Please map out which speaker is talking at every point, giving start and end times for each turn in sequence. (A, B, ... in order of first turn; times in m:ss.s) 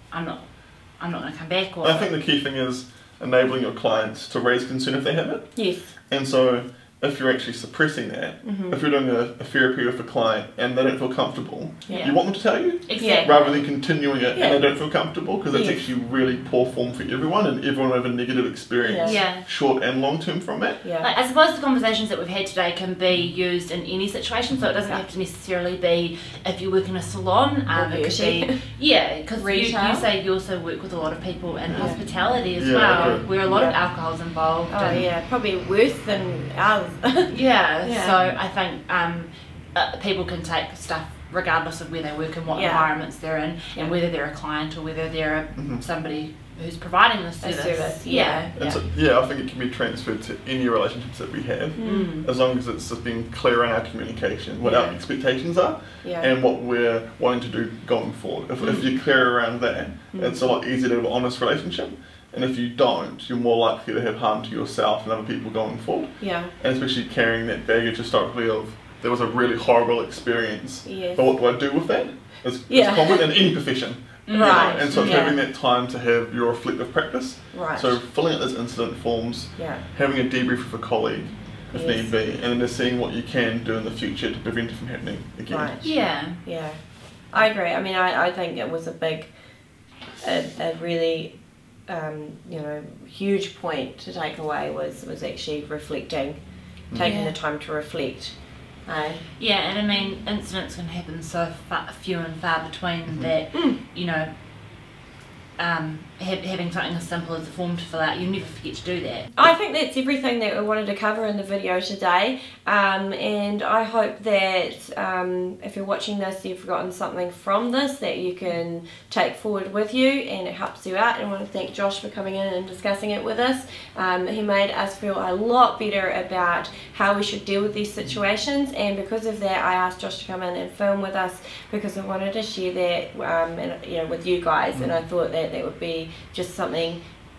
0:00.1-0:02.1 A
0:01.8-0:20.8 B
0:05.6-0:05.9 C
0:08.4-0:08.8 C
0:11.9-0:12.1 C
0:11.9-0:12.2 A
0:12.8-0:13.7 A
0:13.0-0:13.3 C
0:14.4-0:14.6 C
0:15.5-0:15.8 C
0:18.8-0:19.1 C
0:19.0-0:19.5 A
0:20.8-0:21.1 C
0:21.0-0:34.8 A
0:27.7-0:28.6 C
0:29.4-0:30.1 C
0:31.7-0:32.0 B
0:32.6-0:33.3 B
0:32.9-0:33.8 C
0:34.7-0:38.2 C
0:34.8-0:35.1 B
0:37.3-0:48.8 A
0:42.5-0:43.0 C
0:45.6-0:45.8 B
0:47.4-0:48.5 C
0:48.6-1:25.8 B
0:51.8-0:52.3 C
0:54.6-0:55.0 A
0:56.0-0:56.3 C
1:00.1-1:00.5 C
1:06.2-1:06.5 C
1:10.8-1:11.3 C
1:12.7-1:13.3 C
1:14.3-1:15.3 A
1:14.4-1:15.4 C
1:17.5-1:18.0 C
1:19.6-1:19.8 C
1:21.7-1:22.1 C
1:25.5-1:25.8 C
1:25.8-1:26.4 A
1:26.4-1:29.3 C
1:30.2-1:31.4 C
1:31.9-1:36.4 C
1:37.0-1:38.3 C
1:37.0-1:37.4 A
1:38.8-1:39.2 C
1:39.4-1:44.3 A
1:43.1-1:43.3 B
1:43.5-1:43.8 C
1:45.6-1:49.3 A
1:49.4-2:17.0 C